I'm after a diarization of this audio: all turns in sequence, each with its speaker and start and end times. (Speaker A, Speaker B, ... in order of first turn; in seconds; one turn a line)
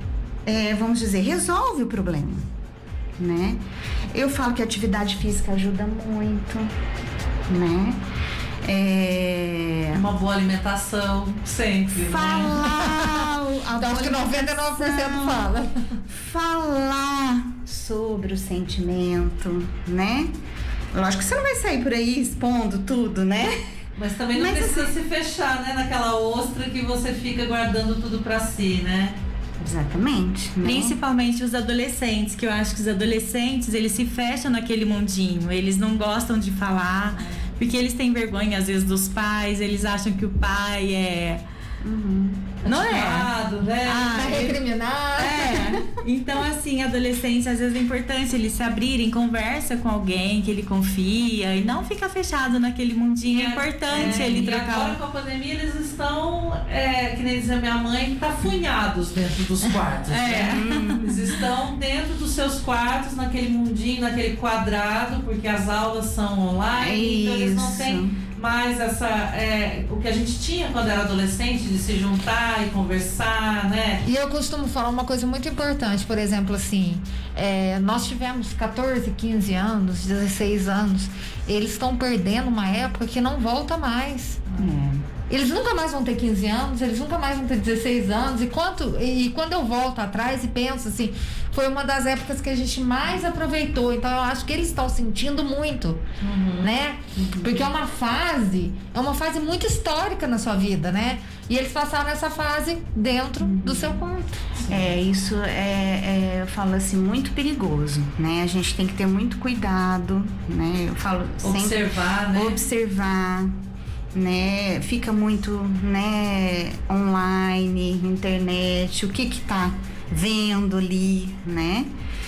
Speaker A: 0.5-2.5
Speaker A: 3.2-3.6
Speaker A: 4.1-6.7
Speaker A: 7.5-8.0
Speaker A: 8.6-10.0
Speaker B: 9.9-12.6
Speaker A: 12.0-15.5
Speaker C: 12.7-13.2
Speaker C: 13.8-15.8
Speaker A: 16.2-20.3
Speaker A: 20.9-23.5
Speaker B: 24.0-29.2
Speaker A: 24.3-24.9
Speaker A: 29.6-31.0
Speaker D: 30.6-41.4
Speaker A: 41.8-42.6
Speaker B: 42.6-44.6
Speaker D: 42.6-43.3
Speaker C: 43.9-45.7
Speaker D: 45.2-55.0
Speaker A: 45.3-45.7
Speaker B: 53.2-74.0
Speaker D: 60.1-60.9
Speaker A: 60.4-61.3
Speaker A: 66.8-68.2
Speaker C: 74.0-84.6
Speaker A: 84.6-85.0
Speaker C: 85.3-96.0
Speaker B: 96.2-96.7
Speaker C: 96.6-104.4
Speaker A: 97.2-97.6
Speaker A: 103.4-104.0
Speaker A: 104.7-113.5
Speaker B: 111.4-112.6
Speaker A: 114.1-121.9